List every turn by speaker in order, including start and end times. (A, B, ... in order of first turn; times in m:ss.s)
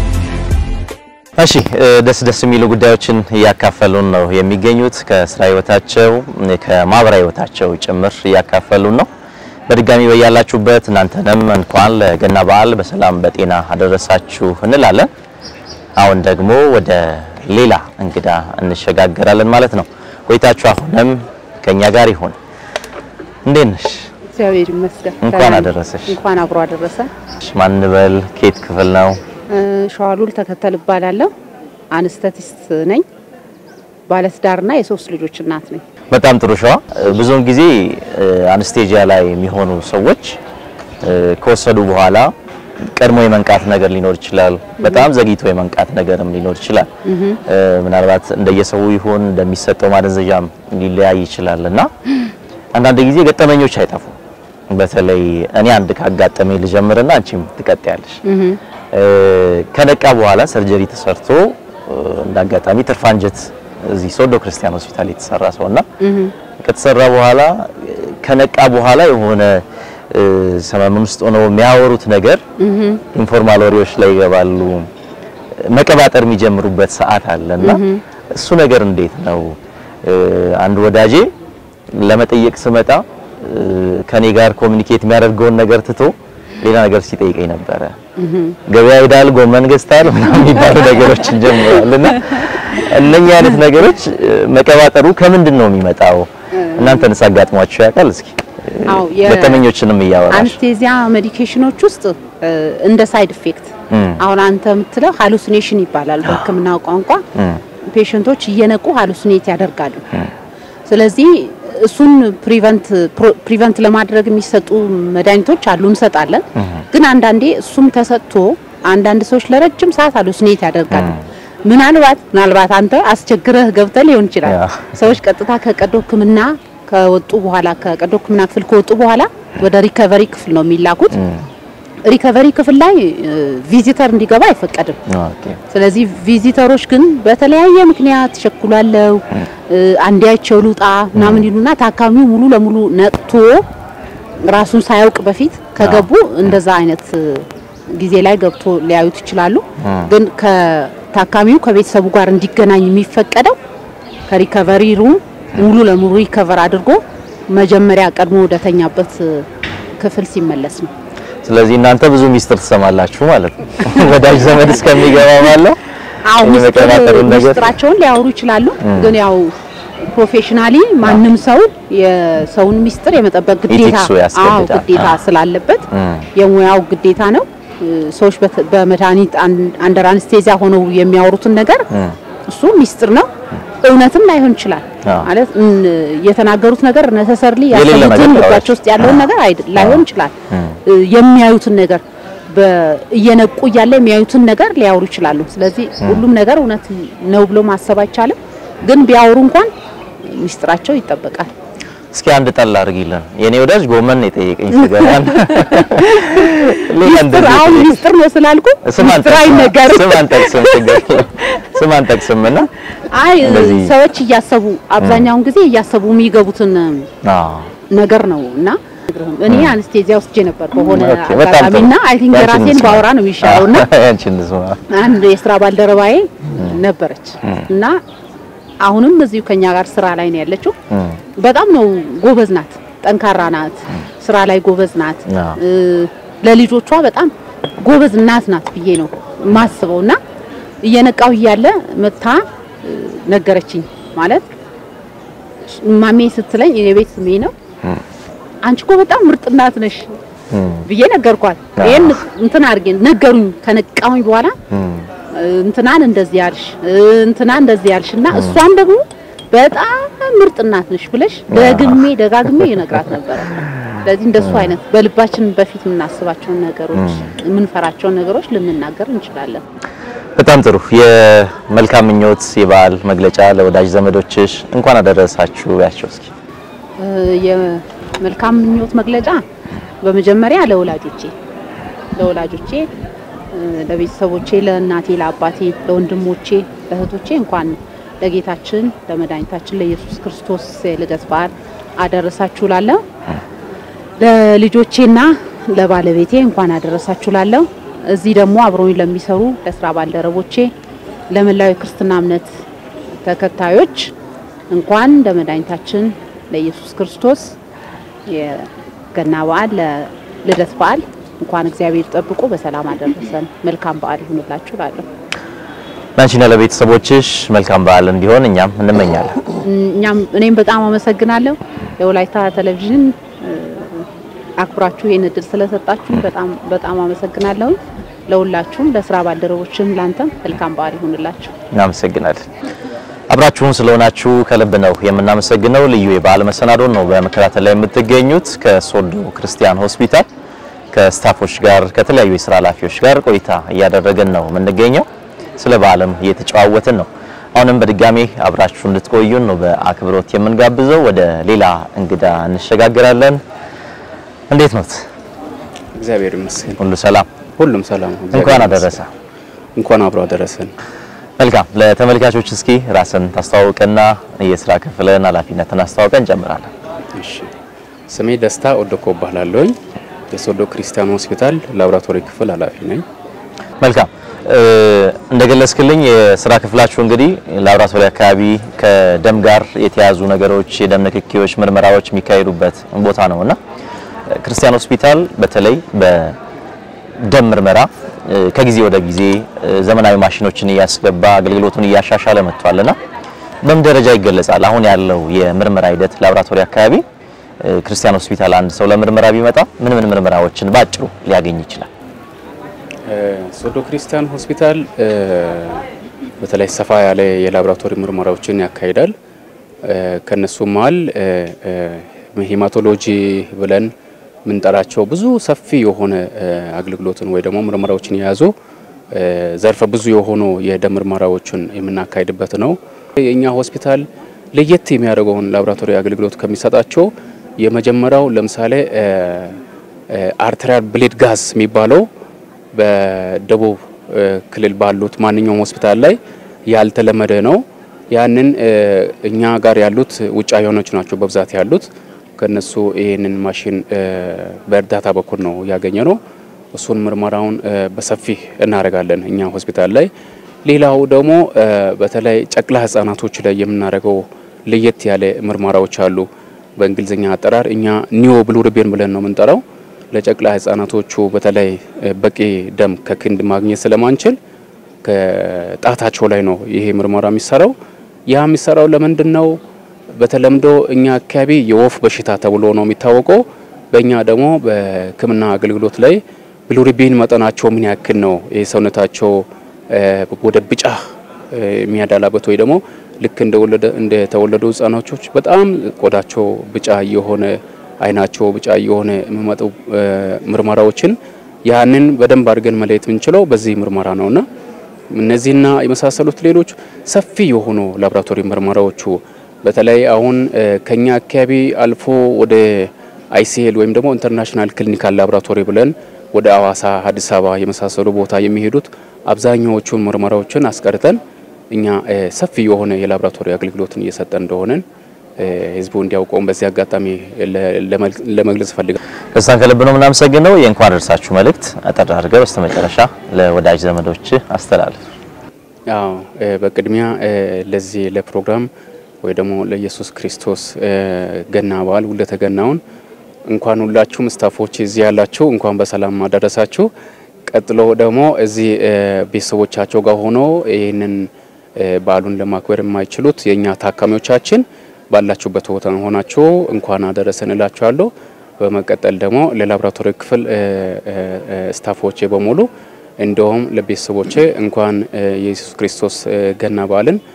0:01.4-0:09.1 A
0:09.7-0:15.1 A
0:16.0-0:22.4 A
0:23.4-0:24.1 A
0:24.3-0:27.1 B
0:25.2-0:26.2 A
0:27.4-0:29.2 A
0:29.5-0:31.3 B
0:31.9-0:33.0 B
0:34.1-0:35.8 B
0:36.1-0:40.4 A
0:41.0-0:42.3 A
0:42.8-0:46.9 A
0:44.8-0:45.1 B
0:47.0-0:47.4 B
0:47.4-0:51.9 A
0:52.7-0:54.2 A
0:54.7-0:58.2 A
0:58.2-0:58.6 B
0:58.9-1:05.8 A
1:06.0-1:06.3 B
1:06.6-1:12.4 A
1:12.6-1:13.0 B
1:13.1-1:14.9 A
1:15.6-1:17.8 A
1:17.6-1:18.0 B
1:18.3-1:21.3 A
1:21.9-1:28.0 A
1:28.2-1:28.6 B
1:28.7-1:40.6 A
1:36.5-1:37.1 B
1:38.9-1:39.6 B
1:40.3-1:47.2 B
1:43.9-1:44.2 A
1:47.9-1:50.0 B
1:50.9-2:01.1 B
2:00.9-2:01.2 A
2:01.6-2:11.2 B
2:04.4-2:04.8 A
2:11.1-2:11.4 A
2:12.0-2:15.0 B
2:15.1-2:15.6 A
2:15.7-2:23.6 B
2:21.2-2:21.4 A
2:24.4-2:33.6 B
2:25.8-2:26.1 A
2:29.8-2:30.1 A
2:34.3-2:39.4 B
2:40.0-2:40.9 B
2:41.4-2:45.8 A
2:43.8-2:45.0 B
2:46.3-2:49.5 B
2:46.4-2:47.7 A
2:48.8-2:49.1 A
2:50.0-3:01.8 B
2:53.7-2:55.1 A
2:55.9-2:56.2 A
3:01.9-3:02.2 A
3:02.5-3:03.3 B
3:03.8-3:10.3 B
3:07.7-3:09.2 A
3:09.8-3:10.7 A
3:10.9-3:19.7 B
3:20.2-3:21.5 B
3:22.1-3:28.0 A
3:24.9-3:31.6 B
3:28.8-3:32.7 A
3:33.1-3:37.1 B
3:33.4-3:33.9 A
3:35.0-3:35.3 A
3:37.2-3:37.7 A
3:37.9-3:43.8 B
3:39.5-3:39.7 A
3:40.9-3:44.8 A
3:44.9-3:48.0 B
3:46.5-3:46.8 A
3:48.8-3:50.7 B
3:50.9-3:51.2 A
3:51.4-4:00.2 B
3:55.3-3:55.6 A
4:00.8-4:04.4 B
4:05.6-4:07.5 B
4:08.6-4:10.1 B
4:10.5-4:10.8 A
4:10.8-4:14.6 B
4:11.8-4:12.1 A
4:14.7-4:15.1 A
4:15.3-4:29.6 B
4:21.5-4:22.0 A
4:24.4-4:24.7 A
4:26.9-4:27.3 A
4:30.4-4:36.3 A
4:37.0-4:39.4 B
4:40.0-4:41.3 B
4:42.2-4:42.9 B
4:43.5-4:53.0 B
4:54.2-5:00.7 B
5:01.3-5:02.5 B
5:03.2-5:04.1 B
5:04.7-5:07.5 B
5:08.3-5:15.0 B
5:16.2-5:19.3 A
5:19.6-5:24.0 B
5:24.6-5:31.5 B
5:31.7-5:32.5 A
5:33.3-5:40.2 A
5:40.9-5:53.4 A
5:54.5-5:55.1 A
5:56.0-5:56.8 C
5:56.8-5:57.3 A
5:57.6-5:59.0 C
5:58.3-5:59.1 A
5:59.8-6:00.7 C
6:01.4-6:06.7 A
6:07.2-6:07.5 C
6:08.1-6:09.7 C
6:10.3-6:13.0 C
6:13.8-6:23.6 A
6:24.3-6:26.4 A
6:27.2-6:33.0 A
6:33.6-6:37.0 A
6:37.6-6:41.9 A
6:43.1-6:45.8 C
6:46.4-6:49.1 C
6:49.9-6:53.9 C
6:54.4-6:58.5 C
6:59.1-7:09.6 C
7:10.2-7:12.0 C
7:12.7-7:16.2 C
7:16.7-7:26.2 C
7:26.7-7:30.1 C
7:30.6-7:36.2 C
7:36.8-7:44.4 C
7:45.0-7:47.7 C
7:48.3-7:49.5 C
7:50.2-8:14.4 C
8:15.1-8:31.2 C
8:31.7-8:34.8 C
8:35.4-8:38.9 C
8:39.3-8:45.0 A
8:45.9-8:48.7 C
8:49.2-8:52.8 C
8:53.5-8:56.9 C
8:57.5-9:08.1 C
9:08.6-9:12.7 C
9:13.2-9:17.2 C